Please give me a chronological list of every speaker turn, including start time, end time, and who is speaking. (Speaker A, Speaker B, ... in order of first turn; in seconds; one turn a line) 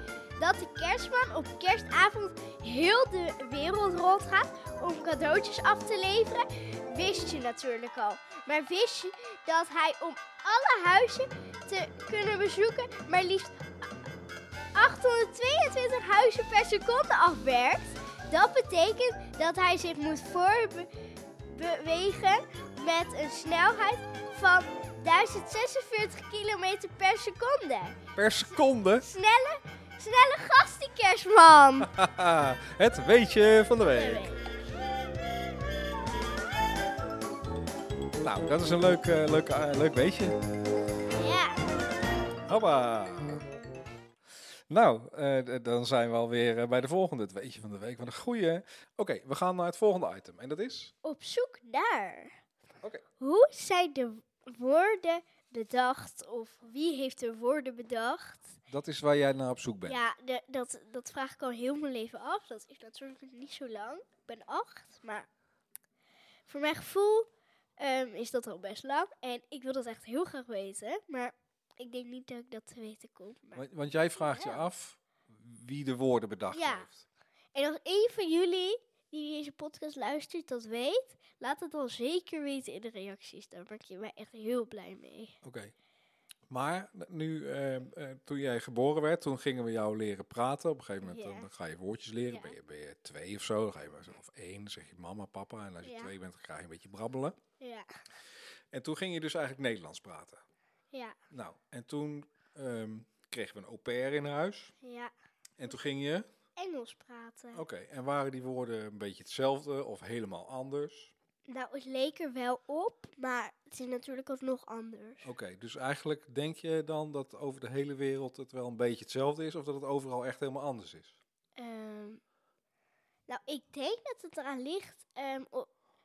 Speaker A: 0.4-13.6
Speaker A: 14.7-20.9
Speaker A: 21.4-28.0
Speaker B: 28.1-29.1
Speaker A: 29.0-31.9
Speaker B: 31.8-34.3
Speaker A: 33.9-34.5
Speaker B: 38.2-40.4
Speaker A: 41.1-41.7
Speaker B: 42.5-43.4
Speaker B: 44.7-50.9
Speaker A: 51.0-52.4
Speaker A: 53.2-58.6
Speaker B: 58.7-60.0
Speaker A: 59.9-65.3
Speaker A: 66.5-67.3
Speaker A: 67.8-74.7
Speaker B: 73.5-77.0
Speaker A: 76.5-76.9
Speaker A: 77.5-85.3
Speaker B: 85.4-85.7
Speaker B: 86.5-97.4
Speaker A: 91.0-91.5
Speaker A: 92.3-92.5
Speaker A: 95.8-96.1
Speaker A: 97.6-97.9
Speaker B: 98.7-100.4
Speaker B: 101.3-104.7
Speaker A: 104.8-105.1
Speaker B: 105.6-106.2
Speaker A: 106.6-107.6
Speaker B: 107.5-111.1
Speaker A: 111.5-115.3
Speaker B: 115.2-121.2
Speaker A: 121.5-122.2
Speaker A: 123.3-125.7